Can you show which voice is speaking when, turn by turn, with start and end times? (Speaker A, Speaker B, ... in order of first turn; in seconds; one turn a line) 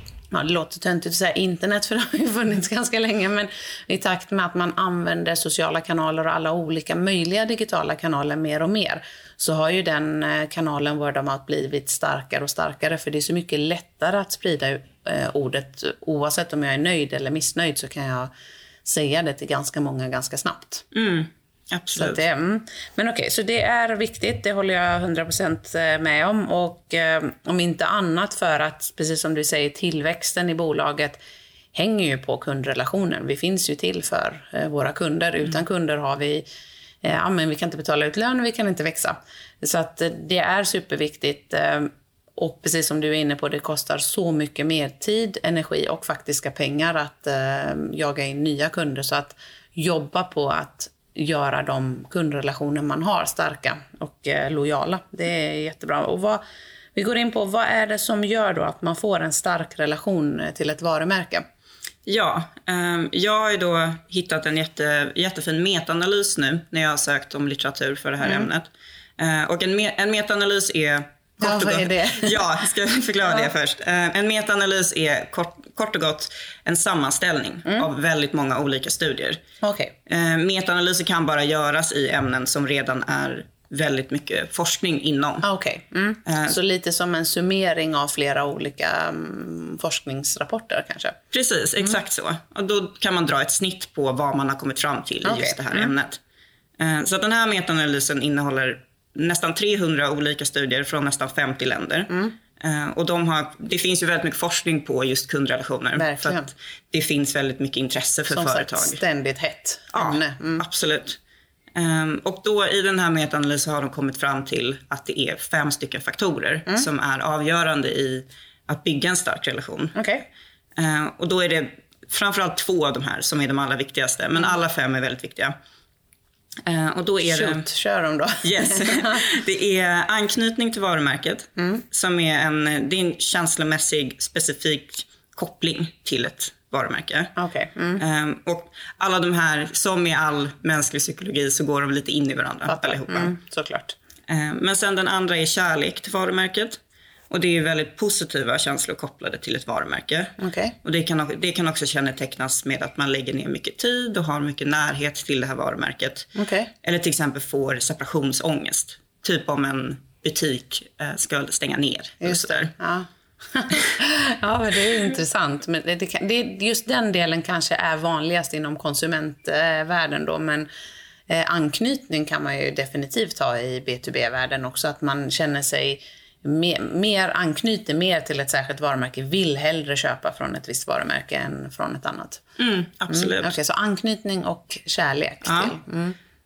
Speaker A: 0.3-18.3
Speaker A: 18.9-20.9
Speaker B: 20.9-22.2
Speaker A: 21.9-31.2
Speaker A: 31.7-36.5
Speaker A: 37.0-56.4
Speaker A: 57.0-61.4
Speaker B: 62.1-79.4
Speaker A: 71.4-72.5
Speaker A: 79.6-79.9
Speaker B: 80.1-85.5
Speaker A: 85.4-91.2
Speaker B: 86.3-86.5
Speaker B: 91.3-96.2
Speaker A: 95.2-95.9
Speaker B: 96.8-109.0
Speaker A: 102.1-102.3
Speaker A: 106.0-106.5
Speaker A: 108.3-110.6
Speaker B: 109.9-111.2
Speaker B: 111.8-120.0
Speaker A: 120.0-120.3
Speaker B: 120.8-125.5
Speaker B: 126.7-127.7
Speaker A: 127.2-129.2
Speaker B: 128.4-137.3
Speaker A: 131.6-131.8
Speaker A: 137.4-138.0
Speaker B: 138.0-143.3
Speaker A: 142.7-144.0
Speaker B: 144.3-156.3
Speaker A: 150.4-150.8
Speaker A: 156.3-156.7
Speaker B: 156.8-162.7
Speaker A: 162.2-170.7
Speaker A: 171.3-182.4
Speaker B: 182.6-183.6
Speaker A: 183.1-186.2
Speaker B: 185.4-185.7